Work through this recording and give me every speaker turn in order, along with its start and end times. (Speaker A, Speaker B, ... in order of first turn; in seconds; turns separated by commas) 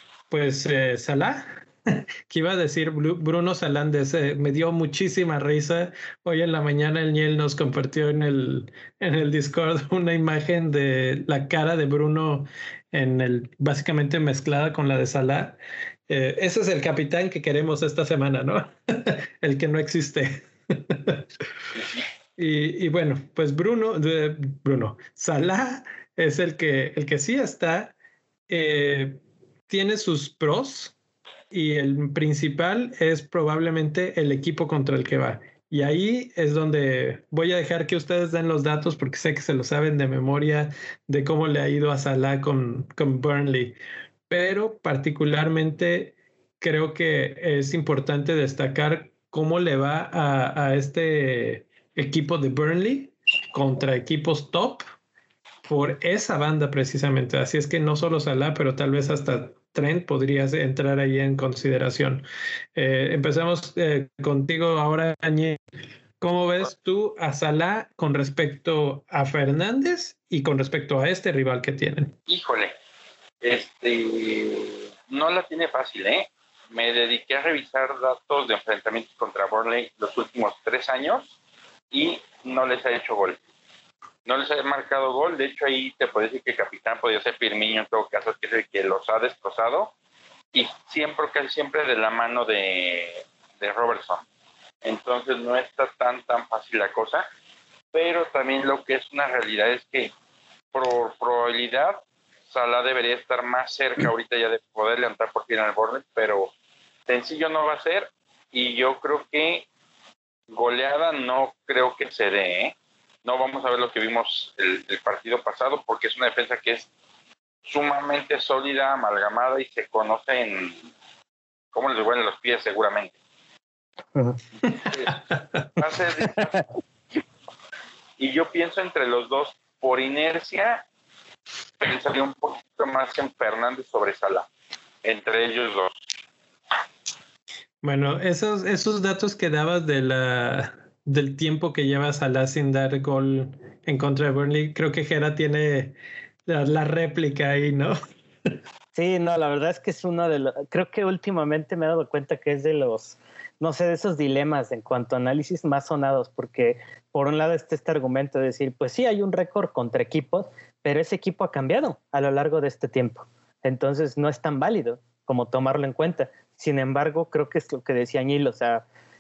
Speaker A: 0.3-21.2, Speaker B: 21.8-22.0, Speaker A: 22.4-27.9, Speaker A: 28.5-30.9, Speaker A: 31.5-43.8, Speaker A: 44.3-54.8, Speaker A: 55.6-62.2, Speaker A: 62.8-65.6, Speaker A: 66.2-72.2, Speaker B: 72.3-72.8, Speaker B: 73.4-81.4, Speaker B: 81.9-83.4, Speaker B: 84.2-89.9, Speaker B: 90.5-94.3, Speaker B: 94.8-97.3, Speaker B: 97.9-100.1, Speaker B: 100.7-106.5, Speaker B: 107.1-109.7, Speaker B: 110.5-116.9, Speaker B: 117.7-120.9, Speaker B: 121.7-123.2, Speaker B: 124.6-125.2, Speaker A: 124.7-125.8, Speaker B: 125.8-126.6, Speaker B: 128.2-130.8, Speaker B: 131.8-134.5, Speaker B: 135.0-136.0, Speaker A: 137.8-145.9, Speaker A: 146.5-147.9, Speaker C: 148.9-168.8